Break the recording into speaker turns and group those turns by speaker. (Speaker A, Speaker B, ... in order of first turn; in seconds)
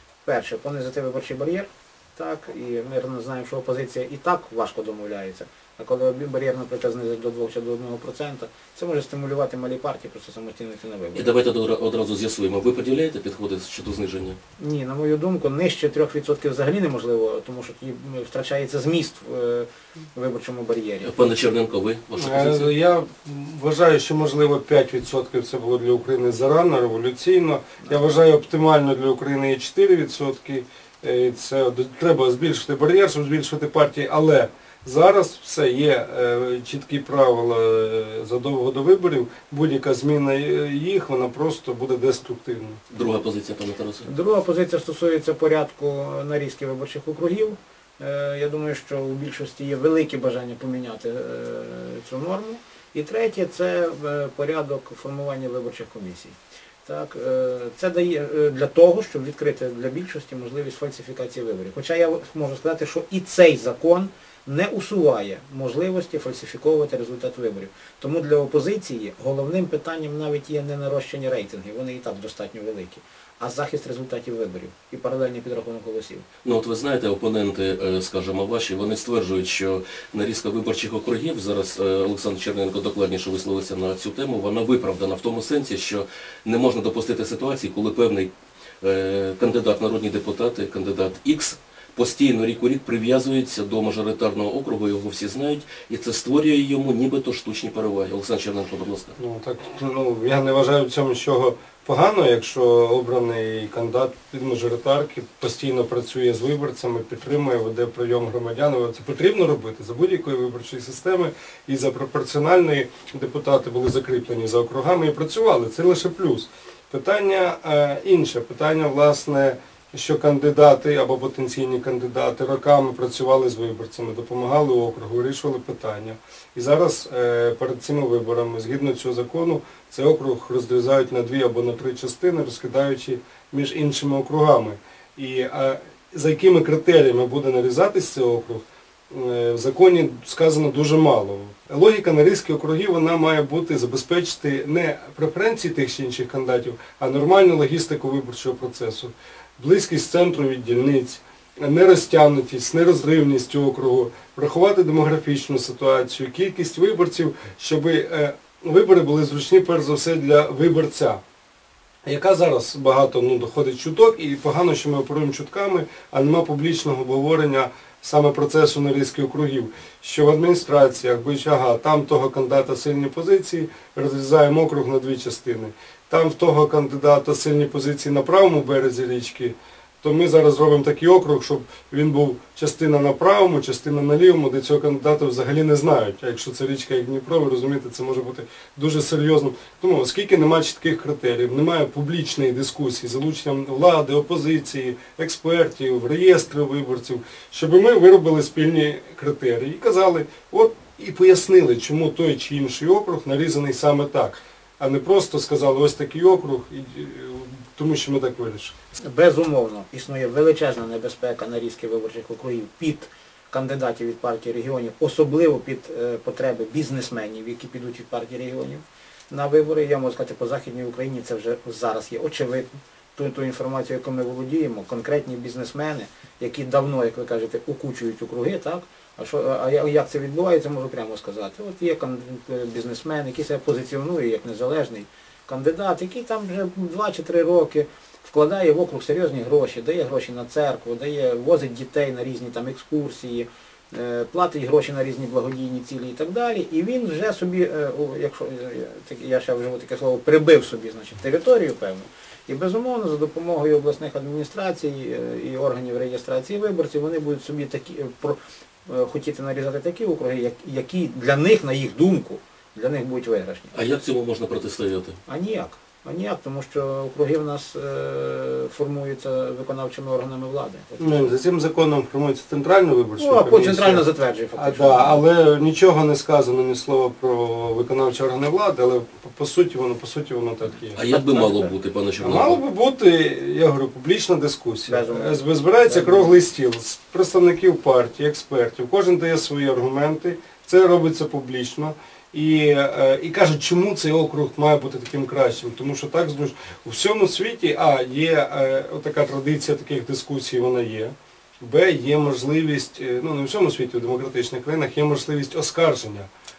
Speaker A: 0.2-11.3, 14.6-21.1, 44.0-76.2, 209.0-263.7, 265.3-271.3, 273.2-275.2, 281.1-281.7, 284.9-286.4
Speaker B: 11.1-14.4, 21.0-22.7, 42.9-44.1, 76.4-88.3, 88.8-99.1, 263.7-265.2, 280.9-282.6
Speaker C: 22.2-42.8, 99.2-161.2, 162.1-208.8, 271.0-281.0, 282.2-306.3